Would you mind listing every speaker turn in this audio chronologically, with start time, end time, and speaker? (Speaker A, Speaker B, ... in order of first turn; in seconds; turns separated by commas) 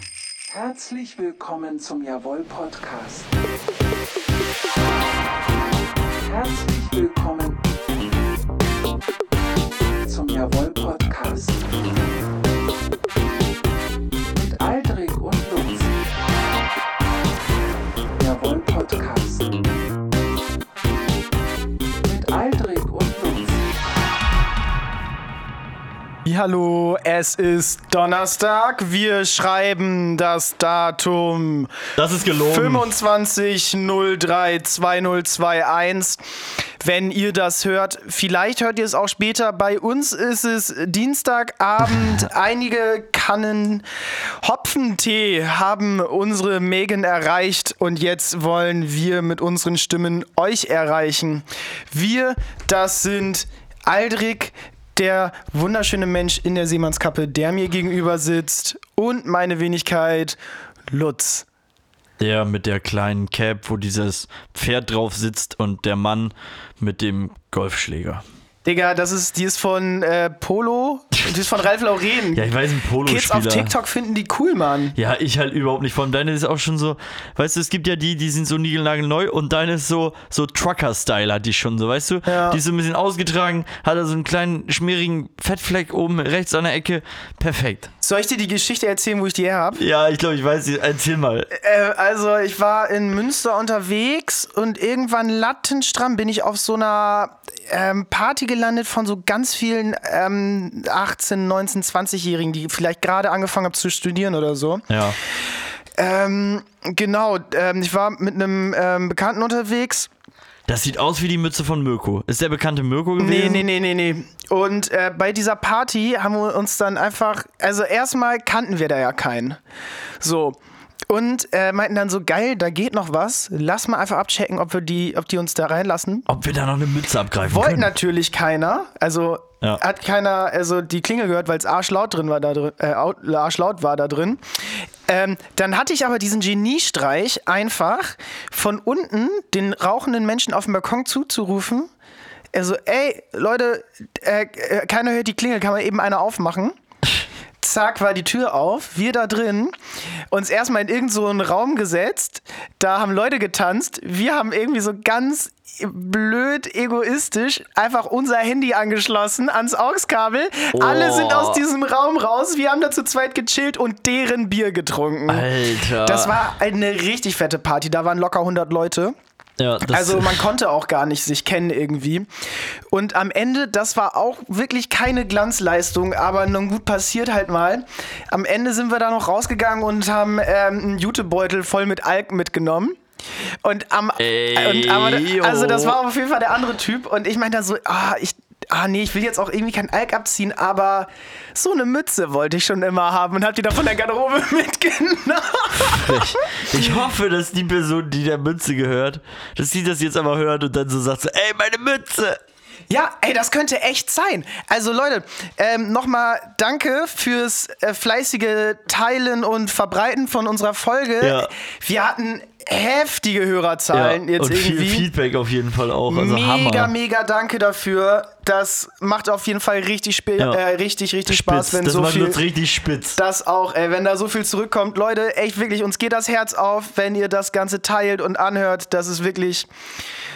Speaker A: 0.5-3.5, Speaker A: 6.2-7.7, Speaker A: 10.0-12.0, Speaker A: 14.3-16.0, Speaker A: 18.2-19.7, Speaker A: 22.0-23.7, Speaker B: 26.2-31.7, Speaker C: 32.0-32.9, Speaker B: 32.5-36.2, Speaker B: 36.8-43.9, Speaker B: 44.4-60.4, Speaker B: 60.9-61.5, Speaker C: 62.2-68.2, Speaker B: 68.6-72.5, Speaker C: 72.3-73.7, Speaker B: 73.0-75.0, Speaker C: 75.0-87.9, Speaker B: 82.3-82.6, Speaker B: 88.0-89.8, Speaker C: 89.8-91.5, Speaker B: 91.5-104.9, Speaker C: 104.9-105.2, Speaker B: 106.0-110.1, Speaker C: 110.7-113.7, Speaker B: 113.2-119.6, Speaker B: 120.2-120.6, Speaker B: 121.1-126.3, Speaker C: 126.3-127.9, Speaker B: 127.4-141.9, Speaker B: 142.5-146.8, Speaker B: 147.6-149.8, Speaker B: 150.3-165.5, Speaker C: 160.7-161.6, Speaker C: 165.3-166.4, Speaker B: 166.0-169.2, Speaker C: 169.6-170.4, Speaker B: 169.9-172.3, Speaker B: 172.9-183.0, Speaker B: 183.6-196.9, Speaker C: 184.2-186.0, Speaker C: 195.8-202.4, Speaker B: 202.9-215.1, Speaker C: 211.2-211.5, Speaker C: 213.9-216.9, Speaker B: 216.1-222.4, Speaker C: 221.3-223.2, Speaker B: 223.2-229.7